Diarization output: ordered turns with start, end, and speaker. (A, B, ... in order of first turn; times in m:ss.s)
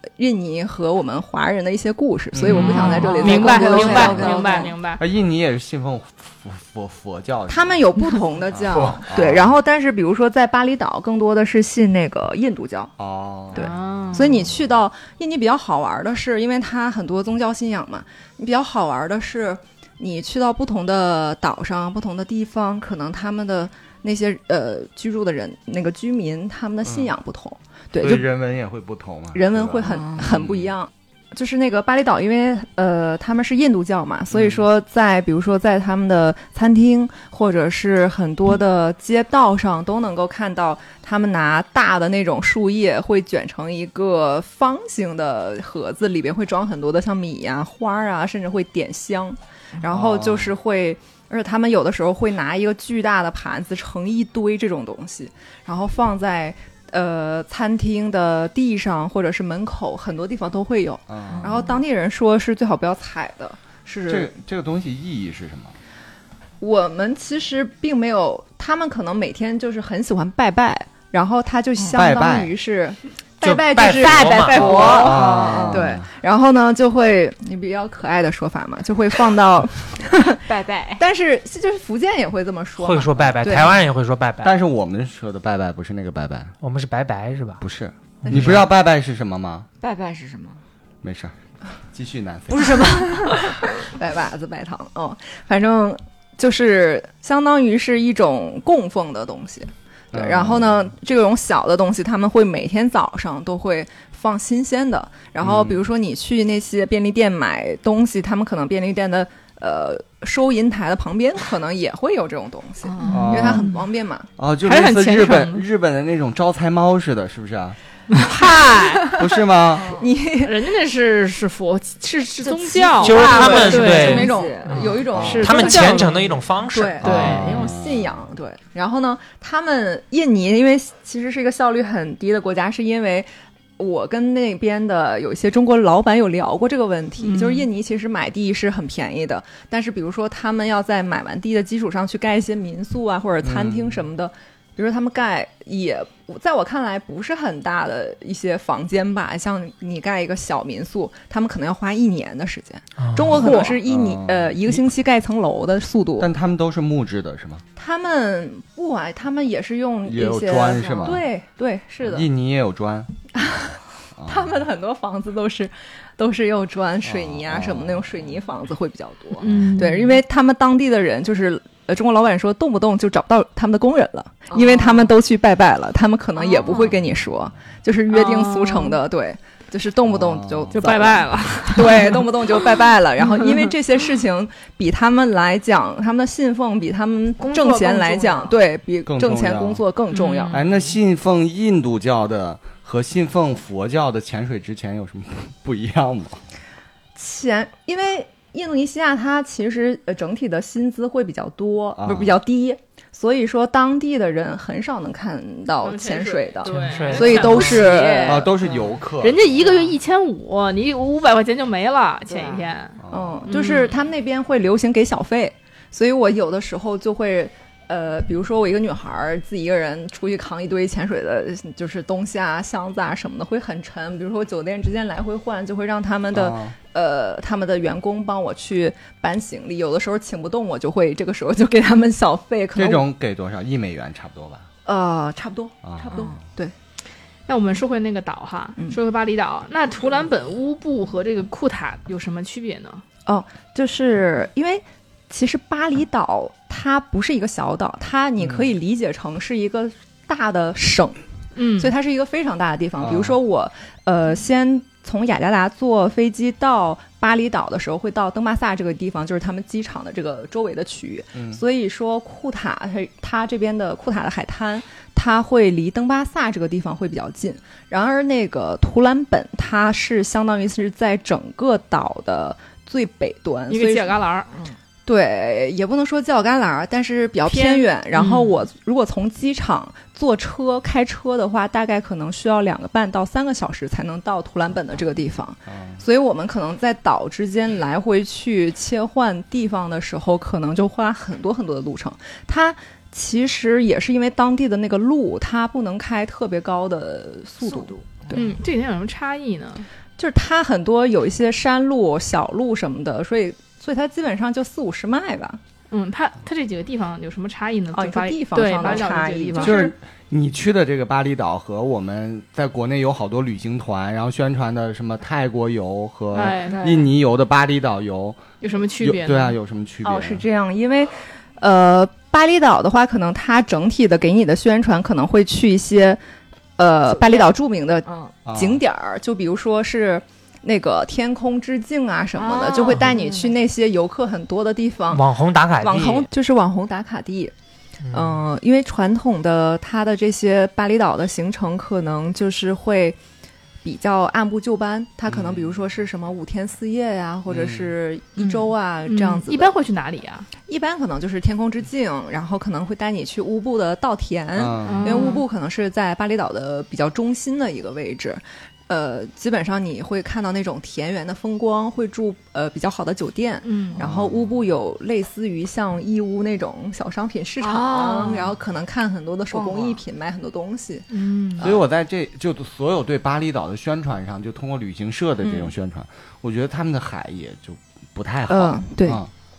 0:00.2-0:04.5 A
0:02.3-0:03.1 B
0:02.5-0:05.0 C
0:02.5-0:04.7 D
0:03.8-0:04.2 B
0:05.0-0:07.8 B
0:07.5-0:12.9 A
0:08.5-0:09.5 B
0:13.0-0:13.6 B
0:13.5-0:14.4 C
0:13.5-0:28.2 A
0:26.8-0:27.1 B
0:28.0-0:30.7 B
0:29.3-1:04.3 A
0:29.8-0:30.3 D
0:34.3-0:34.6 B
0:49.9-0:50.5 B
1:01.1-1:01.6 B
1:01.3-1:01.8 D
1:04.1-1:05.7 B
1:06.6-1:23.8 A
1:11.9-1:12.5 B
1:13.4-1:15.0 E
1:14.2-1:15.9 D
1:14.8-1:16.0 B
1:20.4-1:21.0 D
1:22.8-1:24.6 E
1:24.4-1:26.6 B
1:26.6-1:27.6 E
1:27.6-1:29.7 B
1:28.2-1:28.7 E
1:28.3-1:28.6 A
1:29.8-1:30.6 D
1:31.0-1:31.3 B
1:31.9-1:33.1 B
1:32.5-1:33.6 D
1:33.8-1:54.3 A
1:40.1-1:40.7 B
1:45.4-1:45.8 B
1:52.8-1:53.6 D
1:53.0-1:53.8 C
1:53.1-1:53.7 B
1:54.4-1:57.8 B
1:54.6-1:55.6 C
1:58.1-1:59.0 C
1:58.3-1:59.3 A
1:59.1-1:59.9 B
1:59.7-2:00.1 D
1:59.8-2:00.6 A
2:00.4-2:04.3 C
2:02.4-2:05.0 D
2:03.0-2:07.5 E
2:03.2-2:13.3 A
2:05.1-2:06.4 C
2:05.1-2:05.5 B
2:07.0-2:07.7 C
2:07.0-2:08.2 B
2:13.8-2:36.3 A
2:17.2-2:17.7 C
2:23.4-2:24.0 B
2:33.0-2:33.5 E
2:33.4-2:34.9 B
2:36.2-2:37.6 B
2:37.8-2:42.3 A
2:40.1-2:41.2 B
2:40.7-2:41.2 D
2:42.0-2:43.1 B
2:43.3-3:10.6 A
2:44.2-2:44.6 B
2:47.0-2:48.2 B
2:49.4-2:50.2 C
2:49.4-2:49.8 B
2:54.5-2:55.1 D
2:56.4-2:56.9 D
2:58.1-2:59.0 C
3:00.1-3:00.9 B
3:00.7-3:02.3 C
3:03.3-3:03.7 C
3:07.4-3:08.6 D
3:09.0-3:09.8 B
3:10.1-3:10.7 C
3:10.5-3:16.4 B
3:17.1-3:28.5 A
3:22.0-3:22.4 B
3:25.8-3:28.5 C
3:26.6-3:27.8 E
3:26.8-3:29.0 D
3:28.2-3:29.4 B
3:29.2-3:33.9 C
3:32.3-3:32.7 D
3:33.0-3:33.5 B
3:33.1-3:53.1 A
3:46.3-3:46.8 B
3:52.8-3:54.7 B
3:54.8-3:56.7 A
3:55.8-3:56.3 B
3:56.0-3:56.4 D
3:57.5-4:03.0 C
4:03.3-4:11.2 A
4:08.4-4:08.7 B
4:11.6-4:11.9 C
4:11.8-4:34.2 A
4:13.0-4:13.4 B
4:21.3-4:21.6 B
4:33.7-4:34.5 C
4:34.5-4:34.8 D
4:35.0-4:58.5 A
4:37.4-4:38.5 C
4:45.7-4:46.0 B
4:57.6-4:58.5 D
4:58.3-4:59.8 C
5:00.2-5:05.6 A
5:05.9-5:09.8 C
5:07.9-5:09.9 A
5:09.6-5:18.4 B
5:16.3-5:17.0 C
5:16.6-5:17.1 D
5:18.6-5:19.6 C
5:19.0-5:20.4 B
5:20.0-5:26.2 A
5:26.8-5:35.2 A
5:27.1-5:27.5 D
5:28.0-5:28.3 D
5:28.4-5:28.8 B
5:32.3-5:33.6 D
5:35.1-5:36.3 E
5:35.8-5:37.5 A
5:38.0-5:38.4 E
5:38.1-5:43.2 A
5:43.8-5:49.7 A
5:45.3-5:45.7 B
5:47.5-5:47.9 B
5:48.4-5:48.6 D
5:49.1-5:50.5 C
5:50.7-6:11.8 A
5:54.6-5:55.3 B
5:54.8-5:55.4 C
6:03.6-6:04.0 C
6:04.0-6:04.5 B
6:07.6-6:08.6 D
6:09.5-6:10.0 D
6:11.1-6:11.8 C
6:11.6-6:19.3 B
6:15.4-6:15.7 A
6:18.5-6:19.2 A